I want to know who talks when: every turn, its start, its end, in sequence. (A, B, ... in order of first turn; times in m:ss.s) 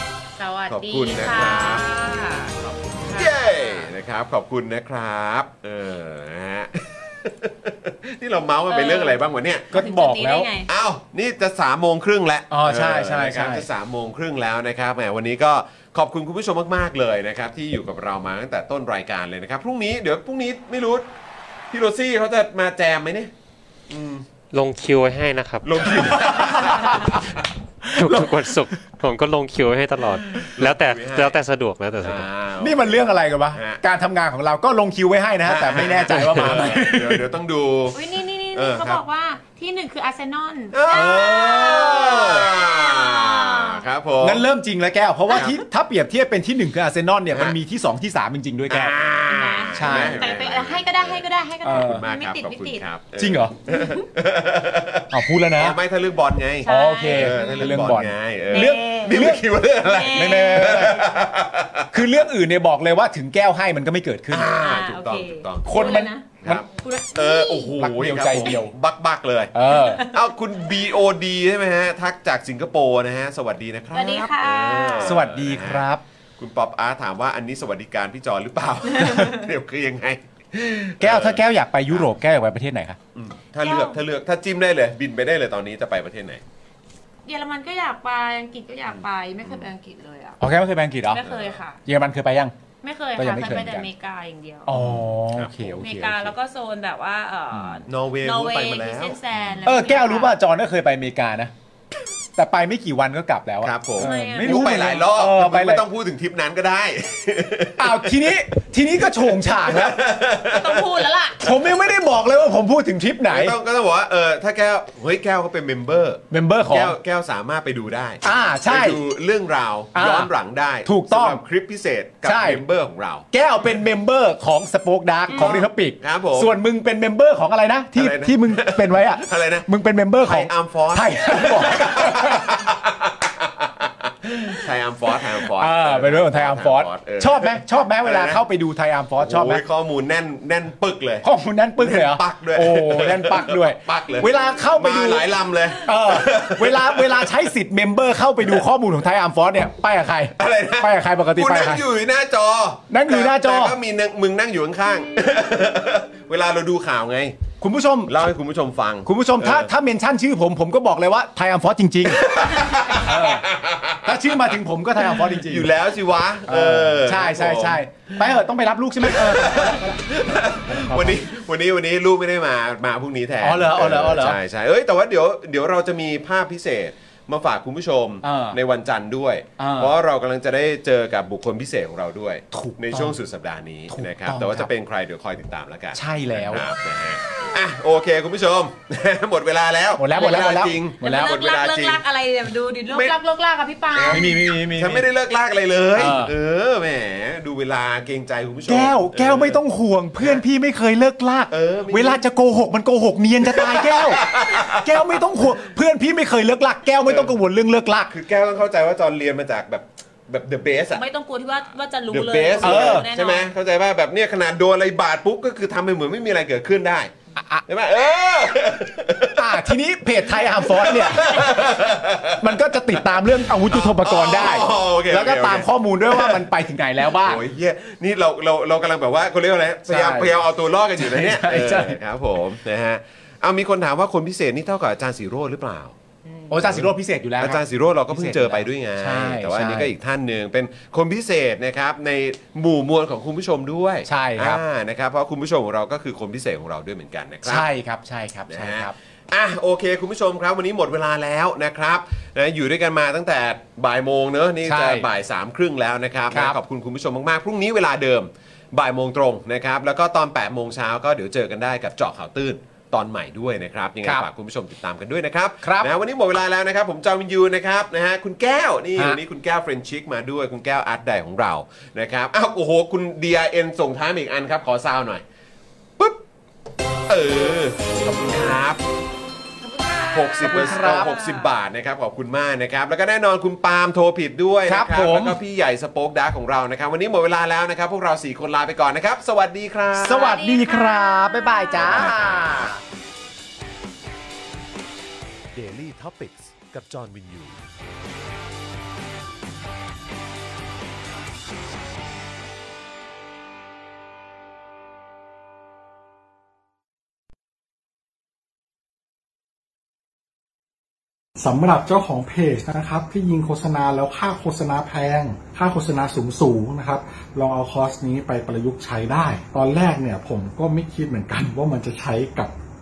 0:00.4-0:03.9 A
0:00.7-0:01.8 B
0:03.1-0:09.8 B
0:08.7-0:10.7 A
0:09.7-0:10.5 C
0:10.6-0:21.1 B
0:12.5-0:13.7 C
0:21.7-0:23.3 B
0:23.9-0:24.3 B
0:24.5-0:26.1 D
0:25.6-0:27.4 B
0:25.9-0:27.2 C
0:27.8-0:28.6 C
0:27.9-0:32.3 D
0:30.3-0:31.4 B
0:32.0-0:33.8 B
0:32.6-0:37.2 C
0:35.4-0:39.0 B
0:37.9-0:43.8 A
0:40.7-0:44.4 B
0:44.2-0:49.0 C
0:45.3-0:45.6 B
0:47.3-0:47.6 B
0:48.7-1:02.1 B
0:49.3-0:52.8 A
0:49.7-0:50.2 C
0:51.6-0:52.0 C
0:53.2-0:53.6 C
0:55.1-0:55.8 C
0:56.6-0:57.7 A
0:56.6-0:59.4 C
0:58.5-0:59.2 A
0:59.8-1:00.7 A
1:00.1-1:01.1 C
1:01.9-1:04.5 C
1:04.3-1:15.9 B
1:04.4-1:07.7 A
1:05.6-1:06.6 C
1:07.8-1:08.7 C
1:09.5-1:10.0 C
1:09.7-1:10.8 A
1:13.9-1:15.1 A
1:15.0-1:16.0 C
1:16.4-1:22.1 B
1:19.0-1:19.4 A
1:21.0-1:23.0 C
1:23.1-1:26.4 B
1:23.6-1:24.0 A
1:27.2-1:30.4 A
1:28.9-1:29.7 B
1:30.4-1:31.2 C
1:31.1-1:31.8 A
1:31.2-1:31.6 B
1:31.8-1:32.5 C
1:32.8-1:34.7 A
1:33.2-1:33.8 C
1:33.4-1:33.8 B
1:34.6-1:36.3 C
1:34.7-1:36.3 B
1:35.7-1:40.4 A
1:37.5-1:37.8 C
1:37.8-1:39.7 B
1:39.6-1:41.5 C
1:42.4-1:45.8 C
1:43.6-1:48.4 B
1:44.0-1:44.9 A
1:47.8-1:50.0 C
1:49.0-1:50.9 B
1:50.4-1:51.4 A
1:51.4-1:53.6 C
1:53.3-2:03.3 B
1:56.3-1:57.0 C
1:58.2-1:59.0 C
1:59.9-2:00.3 C
2:00.8-2:01.4 C
2:02.2-2:02.6 C
2:03.3-2:12.5 C
2:05.3-2:06.6 B
2:05.4-2:05.6 A
2:08.0-2:09.7 B
2:10.2-2:18.4 B
2:15.4-2:19.6 C
2:19.2-2:21.2 B
2:21.2-2:25.3 C
2:21.8-2:27.4 B
2:25.8-2:31.8 C
2:30.4-2:37.4 B
2:32.9-2:33.8 C
2:37.6-2:38.1 C
2:38.1-2:39.7 B
2:39.0-2:43.5 C
2:42.0-2:48.3 B
2:44.0-2:45.7 C
2:46.5-2:50.0 C
2:49.0-3:12.0 B
2:50.6-2:51.2 C
2:53.4-2:54.4 C
2:58.2-2:58.6 C
2:59.6-2:59.9 C
3:02.5-3:03.2 C
3:03.9-3:04.7 C
3:05.9-3:06.6 C
3:10.0-3:11.3 C
3:11.0-3:14.4 A
3:12.9-3:13.2 B
3:13.9-3:19.6 B
3:14.1-3:15.1 C
3:16.0-3:16.3 C
3:18.7-3:28.1 C
3:21.5-3:22.2 B
3:23.4-3:25.2 B
3:27.0-3:27.3 B
3:28.1-3:31.0 B
3:30.9-3:33.5 A
3:32.1-3:37.1 B
3:32.6-3:33.1 C
3:37.4-3:37.6 C
3:37.7-3:43.0 B
3:39.3-3:41.5 C
3:41.2-3:41.5 A
3:42.4-3:47.4 C
3:43.7-3:46.5 B
3:47.1-3:56.0 B
3:49.9-3:50.3 C
3:51.0-3:52.0 C
3:56.5-3:59.9 C
3:56.6-4:07.7 B
4:04.1-4:04.6 C
4:07.4-4:08.9 C
4:08.5-4:35.2 B
4:14.6-4:15.1 C
4:16.3-4:16.6 C
4:25.6-4:25.9 C
4:37.1-4:38.8 B
4:39.6-4:41.5 A
4:40.1-4:50.4 B
4:40.4-4:41.1 C
4:44.7-4:45.4 C
4:50.0-4:52.8 C
4:50.1-4:51.9 A
4:51.8-4:52.7 B
4:55.5-4:57.7 B
5:11.4-5:22.5 E